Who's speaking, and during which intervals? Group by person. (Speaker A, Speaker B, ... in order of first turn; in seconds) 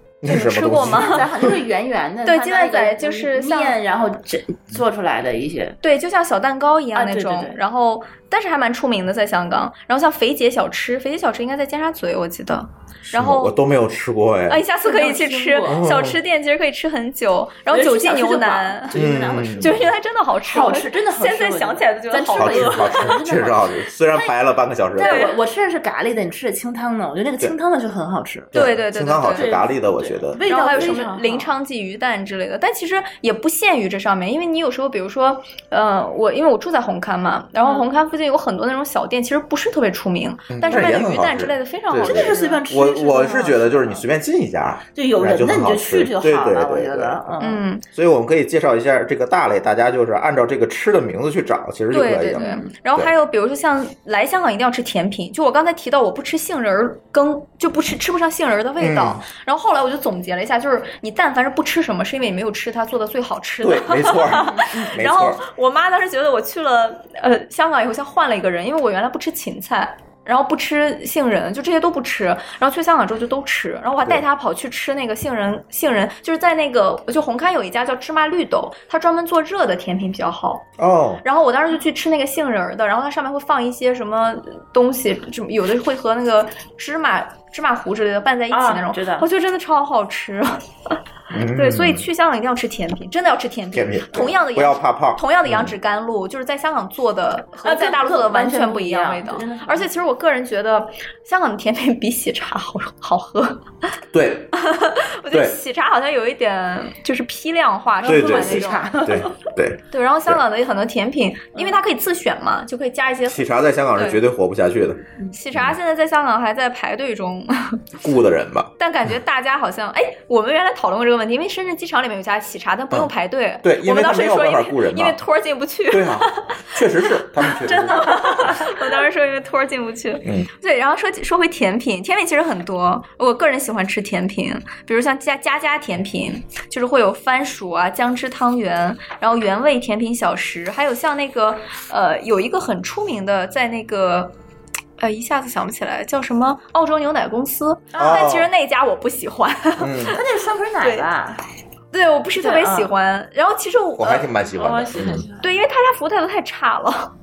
Speaker A: 0.2-1.5, 13.1-14.6, 15.7-16.2, 18.9-19.9, 22.3-25.3, 28.5-31.0, 40.5-47.3, 47.9-53.1, 58.8-59.2, 63.6-65.4, 80.8-81.2, 91.3-92.0, 93.7-95.7, 104.1-104.5, 105.3-105.5, 108.0-110.4, 113.2-115.0, 118.0-118.7, 123.6-125.2, 125.9-128.7, 130.2-130.5, 148.0-148.5, 149.8-150.2, 154.0-155.2
Speaker B: 0.2-1.2, 2.2-3.8, 5.8-13.6, 14.5-19.0, 19.6-23.1, 25.0-25.4, 28.5-29.5, 30.5-42.6, 47.4-47.8, 51.9-80.7, 81.2-90.6, 91.5-103.6, 104.5-109.1, 109.9-114.2, 115.3-117.8, 118.8-144.3, 145.0-150.2, 150.8-151.1, 151.9-154.3, 155.4-157.1
Speaker C: 0.8-5.8, 6.9-7.6, 14.8-15.8, 17.7-19.9, 20.4-24.4, 24.9-28.5, 29.3-31.5, 37.6-37.9, 42.0-44.0, 44.9-47.6, 52.4-52.7, 88.5-89.3, 97.6-99.9, 108.0-109.3, 150.1-151.4, 152.3-152.9, 154.5-155.5